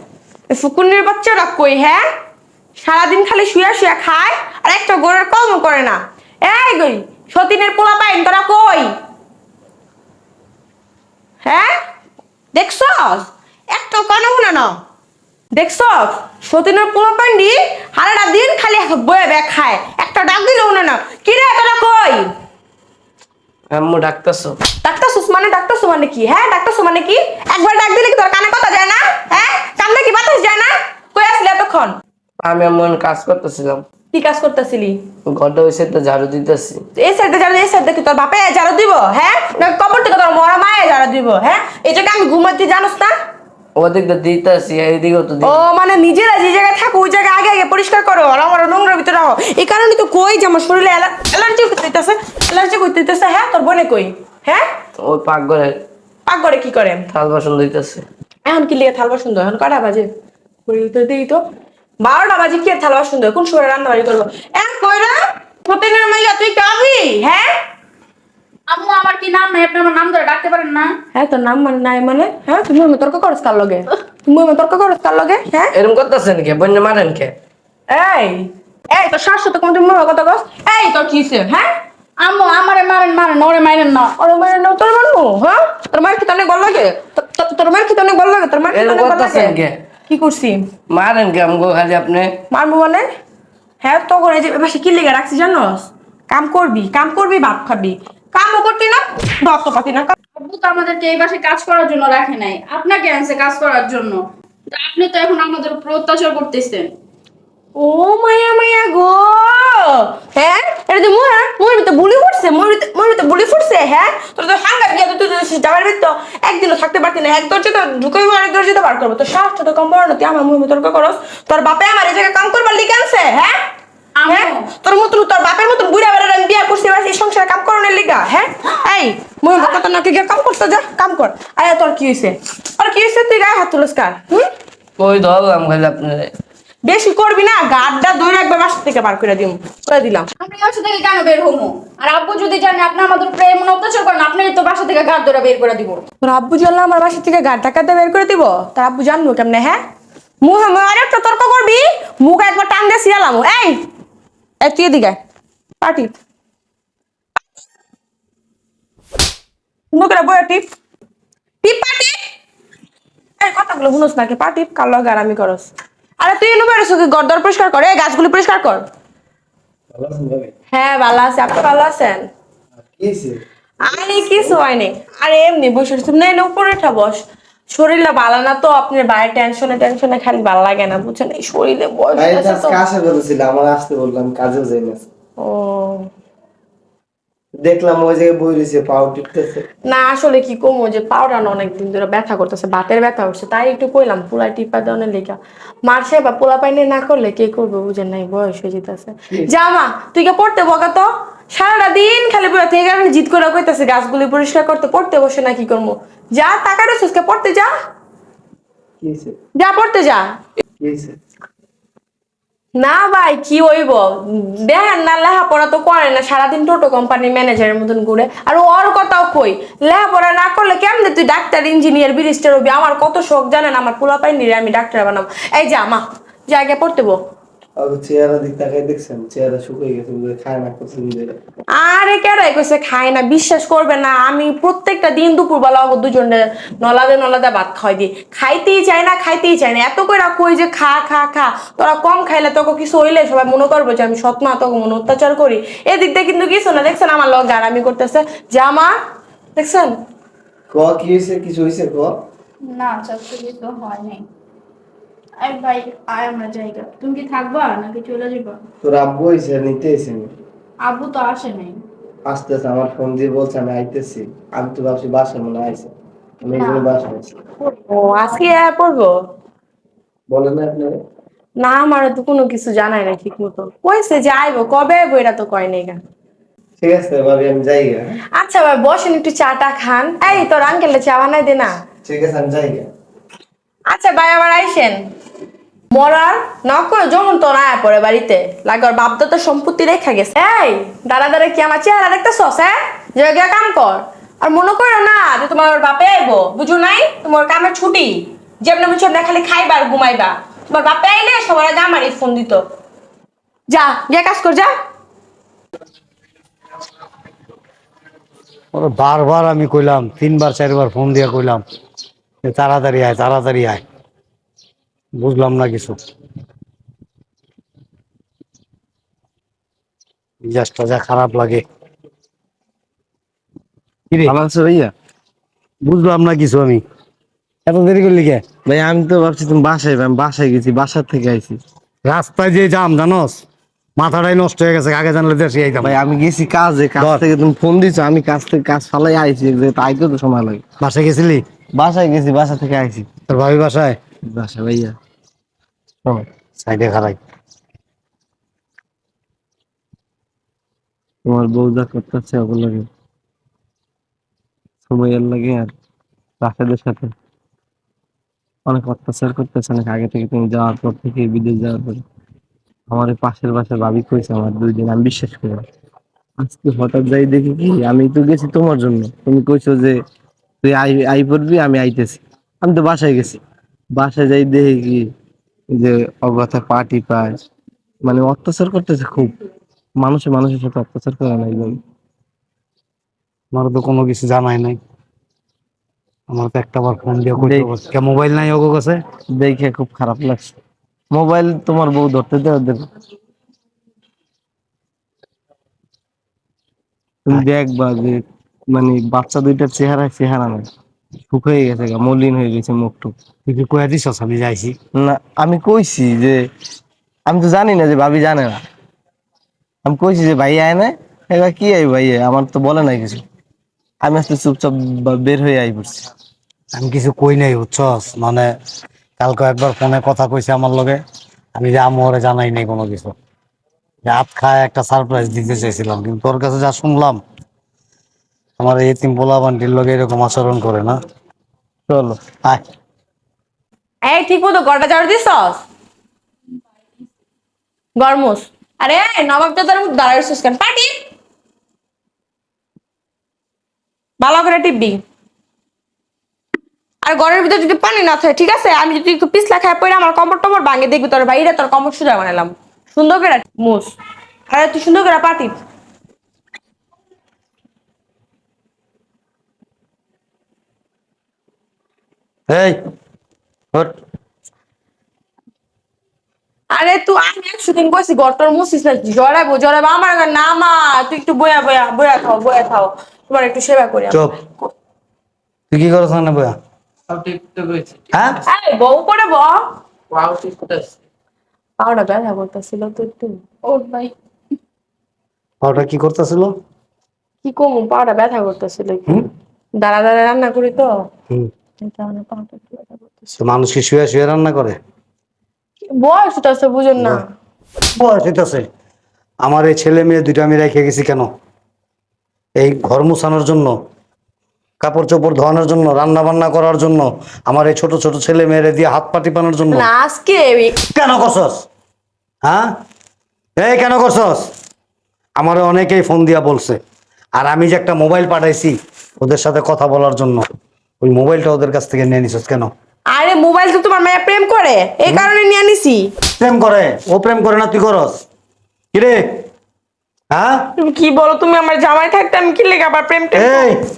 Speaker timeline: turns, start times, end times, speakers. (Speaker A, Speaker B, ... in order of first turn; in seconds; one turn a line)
Speaker A: 0.5-2.0
Speaker A: 2.8-8.9
Speaker A: 11.4-11.8
Speaker A: 12.5-14.8
Speaker A: 15.5-22.3
Speaker B: 23.8-24.5
Speaker A: 24.8-31.9
Speaker B: 32.4-33.8
Speaker A: 34.1-35.0
Speaker B: 35.3-36.8
Speaker A: 37.0-43.1
Speaker B: 43.8-45.4
Speaker A: 45.4-54.7
Speaker B: 55.0-55.7
Speaker A: 56.2-57.0
Speaker B: 57.1-58.0
Speaker A: 58.4-60.1
Speaker A: 60.7-61.4
Speaker A: 62.0-67.5
Speaker C: 68.7-70.9
Speaker A: 71.1-75.7
Speaker B: 75.7-77.3
Speaker A: 77.9-81.7
Speaker C: 82.2-84.1
Speaker A: 84.2-90.7
Speaker B: 88.8-89.8
Speaker B: 90.9-92.3
Speaker A: 92.5-93.1
Speaker A: 93.8-100.2
Speaker C: 100.4-104.2
Speaker C: 104.7-106.9
Speaker A: 107.8-123.6
Speaker C: 124.2-124.6
Speaker A: 124.3-134.5
Speaker B: 135.0-136.3
Speaker A: 136.8-140.3
Speaker C: 140.4-146.0
Speaker A: 146.2-149.8
Speaker A: 150.4-153.8
Speaker A: 154.6-155.2
Speaker A: 155.8-156.2
Speaker A: 159.9-160.6
Speaker A: 161.6-162.2
Speaker A: 163.4-165.7
Speaker A: 166.2-168.8
Speaker D: 169.9-170.5
Speaker A: 170.7-172.2
Speaker D: 172.8-173.4
Speaker A: 173.8-177.2
Speaker D: 174.1-174.6
Speaker A: 177.7-182.8
Speaker D: 182.2-185.0
Speaker A: 185.4-186.1
Speaker D: 187.6-189.6
Speaker A: 189.8-207.7
Speaker D: 209.0-209.3
Speaker A: 209.6-210.2
Speaker D: 210.8-211.2
Speaker A: 212.8-227.2
Speaker D: 227.8-231.3
Speaker A: 231.8-248.9
Speaker A: 249.6-249.9
Speaker D: 250.7-252.1
Speaker C: 252.7-254.2
Speaker C: 255.4-258.6
Speaker D: 258.8-260.3
Speaker C: 260.8-261.8
Speaker D: 262.3-265.9
Speaker D: 266.4-267.3
Speaker C: 266.5-266.9
Speaker A: 267.6-269.1
Speaker D: 270.3-271.0
Speaker A: 271.6-276.0
Speaker D: 276.8-278.2
Speaker A: 278.4-281.7
Speaker D: 282.0-282.9
Speaker A: 283.9-285.0
Speaker A: 285.9-302.6
Speaker A: 303.7-304.7
Speaker E: 308.7-311.6
Speaker E: 312.4-313.8
Speaker E: 315.2-316.0
Speaker E: 320.4-321.6
Speaker D: 324.2-324.9
Speaker E: 325.8-326.8
Speaker E: 327.6-328.4
Speaker D: 328.6-331.6
Speaker E: 332.1-333.4
Speaker E: 334.0-336.0
Speaker D: 335.8-340.6
Speaker E: 337.0-337.2
Speaker E: 340.8-341.4
Speaker D: 341.7-343.1
Speaker E: 343.3-344.0
Speaker D: 344.3-344.9
Speaker E: 346.6-347.2
Speaker D: 351.2-352.9
Speaker D: 354.9-355.7
Speaker D: 356.4-357.1
Speaker D: 358.7-362.0
Speaker D: 362.9-365.6
Speaker D: 366.4-369.9
Speaker D: 370.6-373.4
Speaker D: 373.9-375.1
Speaker D: 375.7-377.4
Speaker D: 378.0-379.3
Speaker D: 380.0-381.8
Speaker E: 383.5-384.8
Speaker E: 386.3-389.0
Speaker D: 387.4-387.7
Speaker D: 389.3-390.6
Speaker D: 391.1-392.8
Speaker D: 397.2-400.7
Speaker D: 401.3-403.1
Speaker E: 403.5-404.8
Speaker D: 404.9-406.4
Speaker D: 407.2-408.6
Speaker D: 409.8-413.2
Speaker D: 414.0-416.0
Speaker E: 416.7-418.5
Speaker E: 419.2-421.0
Speaker E: 421.6-423.1
Speaker E: 424.1-427.2
Speaker E: 428.6-431.0
Speaker D: 431.9-432.2
Speaker A: 434.0-435.6
Speaker A: 438.0-440.9
Speaker A: 444.2-445.0
Speaker A: 447.0-453.9
Speaker A: 454.5-455.6
Speaker E: 462.5-462.8
Speaker A: 466.7-474.7
Speaker E: 475.7-476.5
Speaker B: 477.1-477.9
Speaker E: 478.1-478.4
Speaker A: 478.4-479.6
Speaker B: 480.1-480.8
Speaker A: 481.8-483.4
Speaker C: 483.6-484.1
Speaker E: 485.6-486.5
Speaker A: 487.4-489.2
Speaker A: 489.8-490.9
Speaker A: 491.8-493.4
Speaker E: 493.4-494.8
Speaker A: 495.9-497.2
Speaker E: 497.9-498.6
Speaker E: 499.4-501.3
Speaker E: 502.6-503.7
Speaker E: 504.8-509.9
Speaker A: 509.7-510.7
Speaker E: 510.8-511.6
Speaker E: 512.4-512.7
Speaker E: 513.6-514.5
Speaker E: 515.4-516.8
Speaker E: 517.4-520.4
Speaker E: 521.0-522.7
Speaker A: 523.1-526.1
Speaker E: 526.4-528.2
Speaker E: 528.9-529.2
Speaker E: 530.3-530.6
Speaker A: 530.8-533.7
Speaker E: 533.3-533.8